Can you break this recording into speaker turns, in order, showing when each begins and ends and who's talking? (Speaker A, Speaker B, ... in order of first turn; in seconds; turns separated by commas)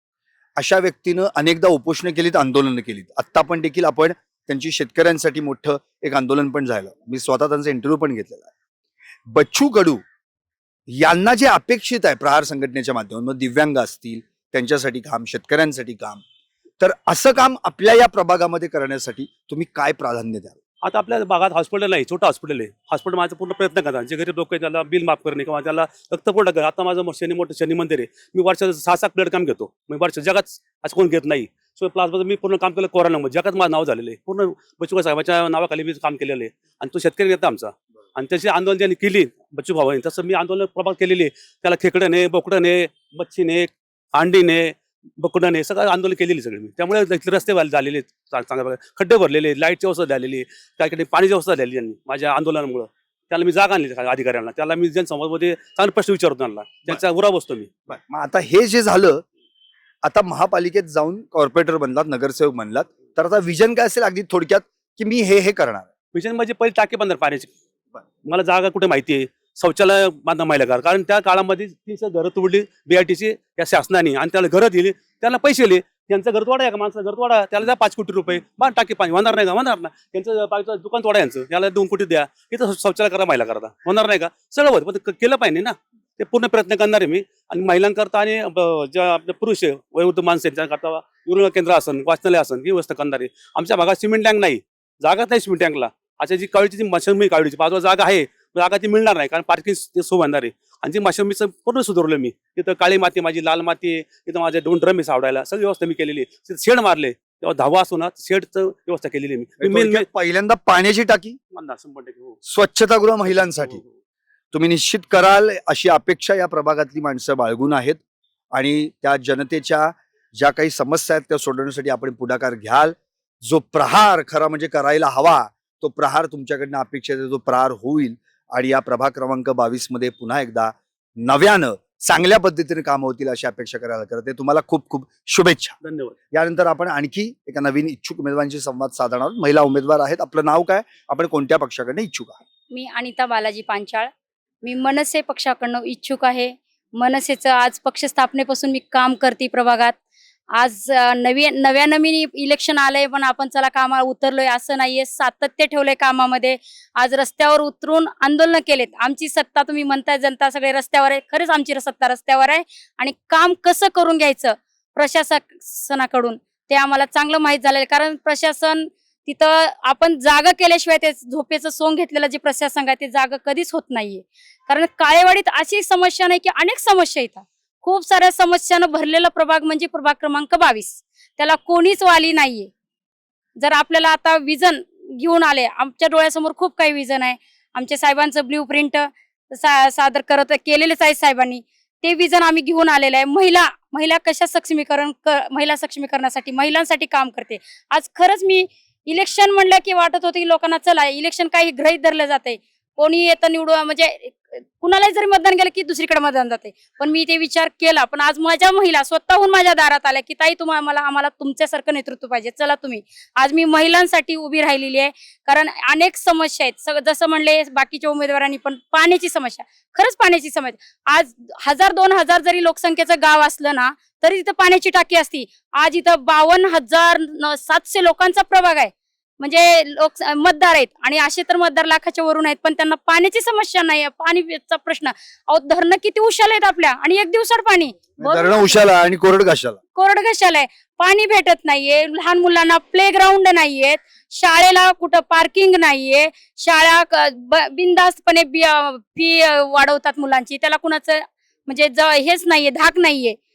Speaker A: 0.6-8.5, Speaker A: 9.3-10.0, Speaker A: 10.9-16.2, Speaker A: 16.8-20.6, Speaker B: 20.8-57.7, Speaker A: 57.9-59.2, Speaker A: 60.0-65.9, Speaker B: 66.1-67.5, Speaker B: 68.2-110.1, Speaker A: 109.6-111.4, Speaker B: 111.5-112.4, Speaker A: 112.5-113.8, Speaker B: 113.3-113.9, Speaker A: 114.5-118.0, Speaker A: 118.5-135.8, Speaker B: 135.8-136.2, Speaker A: 136.3-142.4, Speaker C: 142.7-144.1, Speaker C: 144.6-150.0, Speaker C: 150.6-182.7, Speaker C: 183.6-238.8, Speaker A: 238.2-239.8, Speaker C: 239.9-253.4